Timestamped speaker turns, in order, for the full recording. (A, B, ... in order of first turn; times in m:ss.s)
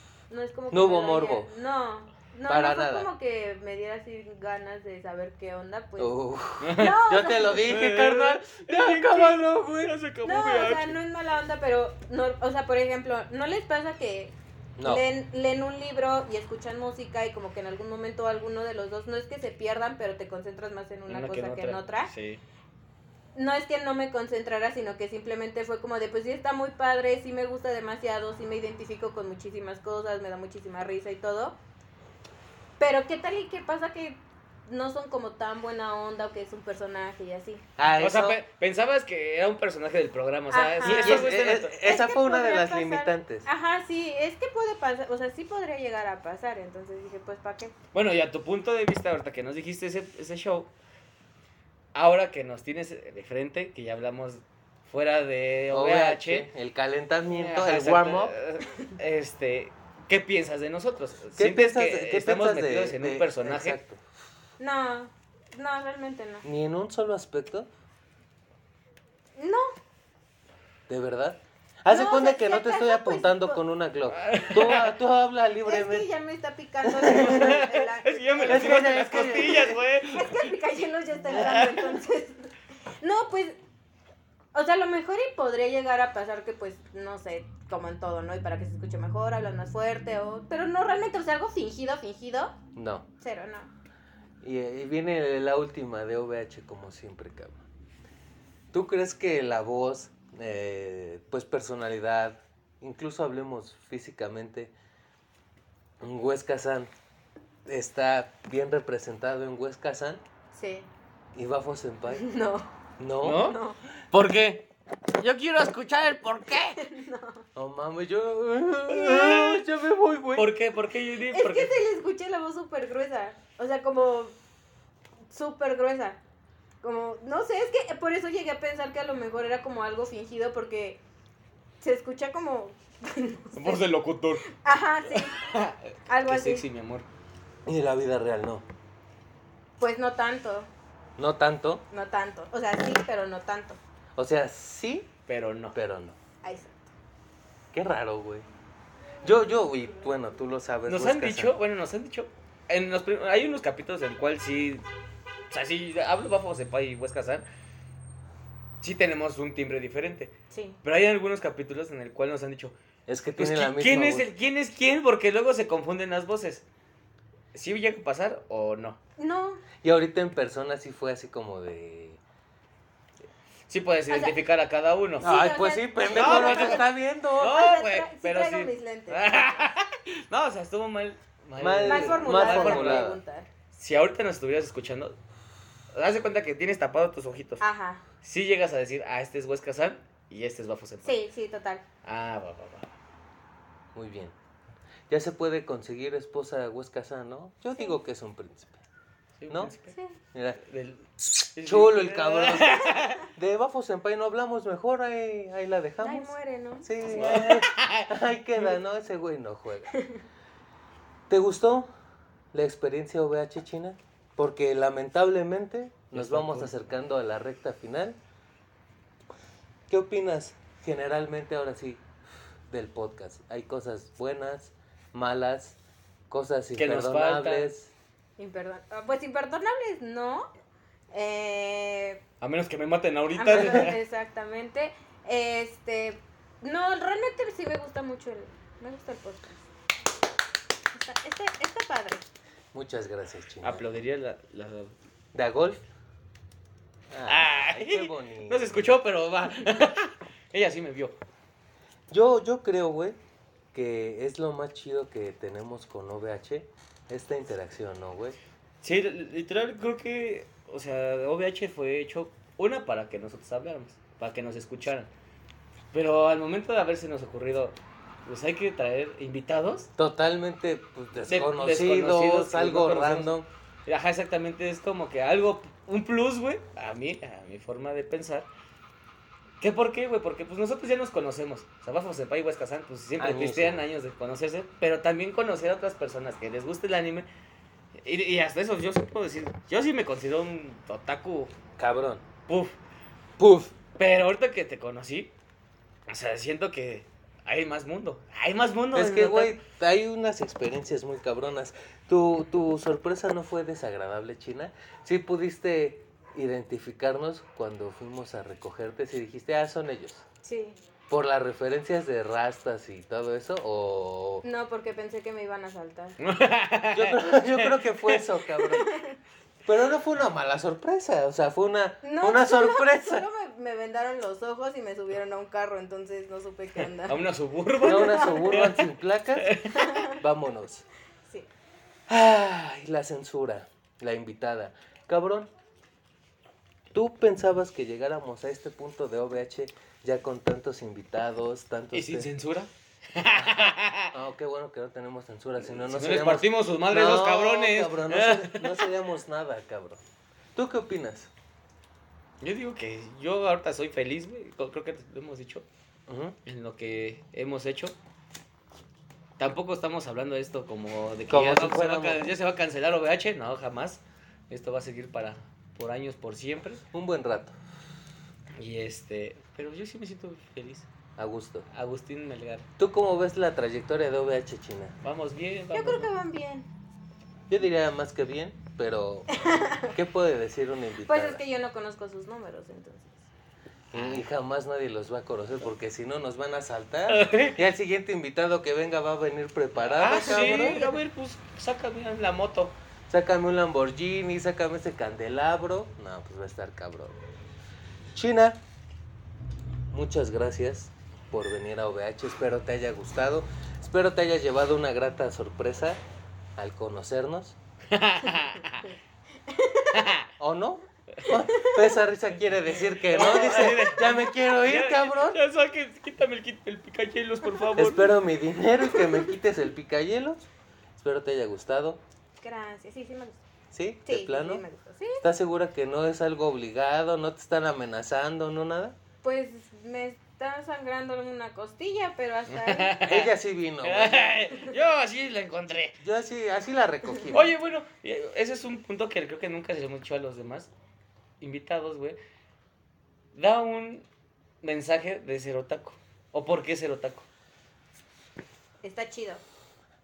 0:00.3-0:06.2 A
0:00.7-0:01.5 B
0:02.5-0:03.1 B
0:06.0-0:09.9 B
0:06.6-0:11.0 C
0:06.7-0:07.6 A
0:10.2-0:22.1 A
0:14.8-0:15.0 B
0:21.1-0:22.4 C
0:23.4-0:31.6 A
0:32.8-0:37.6 A
0:37.8-0:38.4 B
0:38.0-0:41.8 C
0:40.5-0:47.8 A
0:40.8-0:43.5 B
0:47.9-0:50.7 C
0:51.9-0:56.5 C
0:55.7-0:58.4 B
0:57.3-1:03.8 C
1:01.4-1:04.0 B
1:04.6-1:06.5 A
1:06.4-1:07.7 B
1:09.4-1:09.8 A
1:10.9-1:16.0 B
1:11.9-1:13.6 A
1:14.1-1:14.9 C
1:15.6-1:23.6 A
1:16.9-1:17.6 B
1:17.1-1:20.4 C
1:18.5-1:19.8 B
1:21.3-1:22.0 C
1:24.5-1:32.6 A
1:32.8-1:33.0 B
1:33.2-1:33.7 A
1:34.4-1:37.6 B
1:38.7-1:44.7 B
1:46.0-1:46.9 B
1:47.7-1:50.2 B
1:50.5-1:50.9 A
1:51.4-1:52.2 B
1:52.1-1:52.7 A
1:53.0-1:53.5 B
1:53.2-1:53.6 C
1:53.3-1:53.8 A
1:54.1-1:54.7 C
1:55.2-1:56.8 C
1:56.8-1:57.4 A
1:57.6-2:00.5 B
1:58.9-1:59.6 C
2:00.4-2:01.7 C
2:01.3-2:04.4 A
2:05.3-2:06.2 A
2:06.8-2:11.0 A
2:11.8-2:13.8 A
2:13.5-2:14.5 C
2:14.5-2:15.4 A
2:15.1-2:17.1 C
2:16.1-2:16.7 A
2:17.7-2:18.6 B
2:19.8-2:20.7 A
2:21.2-2:21.8 B
2:21.9-2:23.8 A
2:24.2-2:25.1 B
2:25.3-2:25.8 C
2:25.7-2:26.2 B
2:26.4-2:26.9 A
2:27.7-2:28.5 B
2:29.2-2:31.5 B
2:30.9-2:34.9 C
2:35.5-2:37.4 C
2:38.8-2:42.8 C
2:40.5-2:40.8 A
2:43.1-2:44.3 B
2:43.4-2:46.6 C
2:47.5-2:49.0 C
2:49.2-2:49.6 A
2:49.8-2:52.2 B
2:53.7-2:55.3 C
2:54.1-2:54.4 A
2:55.2-2:56.9 A
2:55.2-2:57.6 B
2:56.1-3:03.1 C
2:57.4-2:59.7 A
3:01.6-3:03.2 B
3:01.9-3:03.5 A
3:03.7-3:05.2 C
3:05.9-3:07.6 C
3:07.6-3:08.0 A
3:08.2-3:11.2 C
3:11.0-3:11.8 A
3:12.0-3:13.0 C
3:14.0-3:14.4 B
3:15.1-3:18.8 B
3:19.4-3:20.0 C
3:19.9-3:20.2 A
3:20.3-3:20.6 B
3:20.6-3:23.3 C
3:21.6-3:29.9 B
3:26.0-3:27.2 A
3:27.1-3:28.7 C
3:29.9-3:30.2 A
3:31.3-3:31.9 B
3:32.5-3:38.2 B
3:36.1-3:36.7 C
3:39.9-3:42.0 B
3:42.7-3:45.8 B
3:46.3-3:47.9 B
3:46.8-3:47.7 C
3:48.4-3:50.5 A
3:51.1-3:52.2 A
3:52.4-3:54.0 C
3:53.4-3:59.6 A
3:53.6-3:53.9 B
4:00.9-4:02.2 A
4:02.7-4:03.9 B
4:03.6-4:05.0 C
4:05.3-4:05.8 B
4:07.1-4:09.0 B
4:07.3-4:11.2 C
4:12.1-4:13.2 B
4:13.7-4:18.4 B
4:18.8-4:25.1 C
4:25.9-4:29.9 C
4:30.0-4:33.5 B
4:31.3-4:33.4 C
4:33.9-4:38.5 C
4:39.6-4:47.3 C
4:43.2-4:43.8 B
4:47.9-4:51.5 C
4:51.8-4:52.2 B
4:52.5-4:52.8 C
4:53.4-4:53.8 B
4:54.0-4:55.3 C
4:56.1-4:59.6 C
4:58.9-5:10.2 B
5:10.4-5:10.8 A
5:11.1-5:14.4 B
5:14.4-5:16.2 A
5:16.2-5:18.2 C
5:16.9-5:18.9 B
5:18.6-5:19.2 A
5:19.6-5:23.2 B
5:22.0-5:27.2 A
5:26.8-5:28.8 C
5:27.8-5:28.8 A
5:27.8-5:29.6 B
5:29.4-5:29.9 C
5:29.7-5:30.2 A
5:30.1-5:30.9 B
5:32.1-5:35.5 B
5:36.9-5:42.3 B
5:41.9-5:44.1 C
5:43.3-5:50.0 B
5:45.7-5:48.9 C
5:50.6-5:51.3 B
5:52.4-5:55.6 C
5:56.1-5:56.4 B
5:56.5-5:58.0 C
5:59.4-6:06.8 C
6:01.3-6:02.3 B
6:06.9-6:07.5 B
6:08.6-6:10.9 C
6:11.2-6:11.7 B
6:11.7-6:12.7 C
6:12.8-6:15.0 B
6:15.0-6:16.1 C
6:15.7-6:16.7 A
6:17.5-6:19.3 B
6:19.3-6:19.9 A
6:19.9-6:21.4 B
6:21.0-6:23.2 A
6:23.9-6:30.8 B
6:23.9-6:24.3 C
6:27.1-6:27.6 C
6:29.8-6:32.8 C
6:30.2-6:30.9 A
6:33.1-6:37.2 B
6:38.1-6:38.6 B
6:39.9-6:46.0 B
6:46.6-6:47.6 B
6:47.9-6:48.9 C
6:49.5-6:50.0 A
6:49.9-6:50.3 C
6:50.4-6:55.4 B
6:51.3-6:51.9 A
6:52.9-6:58.2 C
6:53.2-6:54.1 A
6:57.4-6:57.7 A
6:57.8-7:00.4 B
6:58.8-6:59.3 A
7:01.0-7:02.0 B
7:02.4-7:03.4 A
7:03.7-7:04.6 B
7:04.1-7:05.2 A
7:05.2-7:09.0 B
7:09.2-7:13.0 A
7:12.5-7:13.3 C
7:13.0-7:14.3 B
7:13.8-7:16.0 C
7:16.0-7:17.4 B
7:17.3-7:20.7 C
7:21.4-7:22.2 C
7:23.3-7:24.1 C
7:24.6-7:27.3 C
7:28.8-7:29.4 A